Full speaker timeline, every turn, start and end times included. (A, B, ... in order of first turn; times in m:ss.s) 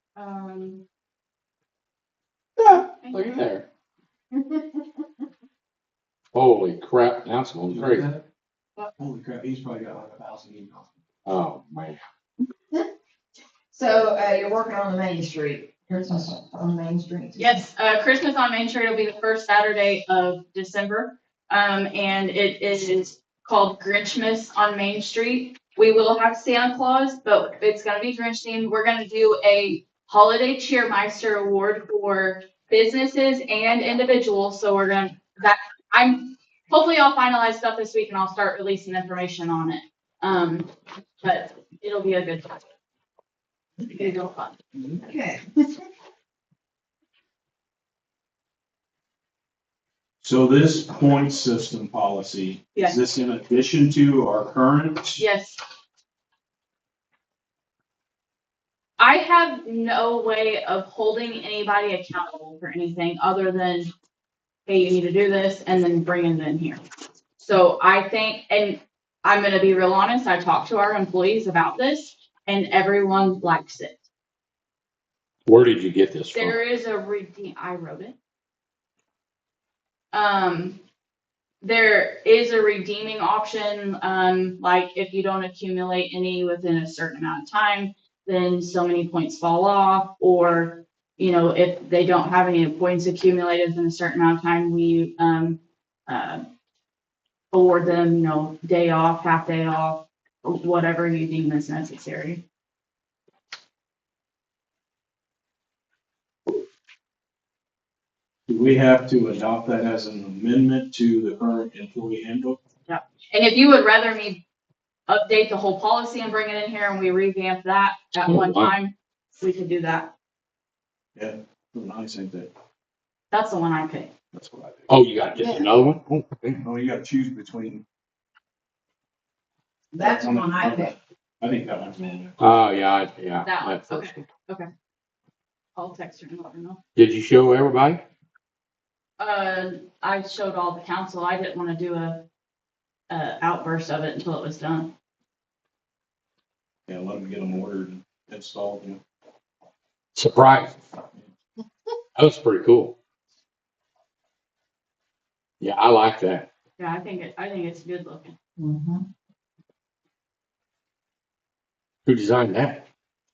0:00.2-0:00.8 A
0:02.9-0:03.6 B
0:03.0-0:03.5 A
0:04.3-0:05.0 C
0:06.3-0:08.1 B
0:07.7-0:08.2 D
0:09.0-0:10.9 D
0:11.3-0:12.0 B
0:13.7-0:17.6 C
0:17.4-0:40.7 A
0:41.2-0:42.6 A
0:43.8-0:44.6 A
0:44.8-0:45.7 C
0:50.2-0:55.2 D
0:55.2-0:55.6 A
0:59.0-1:03.9 A
1:04.7-1:06.8 A
1:07.4-1:14.0 A
1:15.5-1:16.6 B
1:16.3-1:18.2 A
1:20.1-1:20.8 A
1:21.6-1:36.5 A
1:37.5-1:42.4 A
1:48.5-1:52.6 D
1:52.9-1:54.4 A
1:55.1-2:00.1 A
1:58.3-1:58.7 B
2:01.2-2:02.5 D
2:03.3-2:04.1 A
2:04.3-2:04.9 D
2:04.9-2:06.6 B
2:06.6-2:07.8 D
2:09.9-2:10.9 C
2:10.0-2:12.4 D
2:12.4-2:14.2 B
2:13.4-2:14.7 A
2:15.8-2:16.8 A
2:17.0-2:18.0 B
2:19.2-2:22.2 A
2:23.1-2:24.9 A
2:26.9-2:29.0 D
2:30.2-2:30.8 B
2:32.2-2:33.0 B
2:35.6-2:36.5 B
2:36.8-2:38.4 A
2:38.6-2:39.0 C
2:42.1-2:42.8 B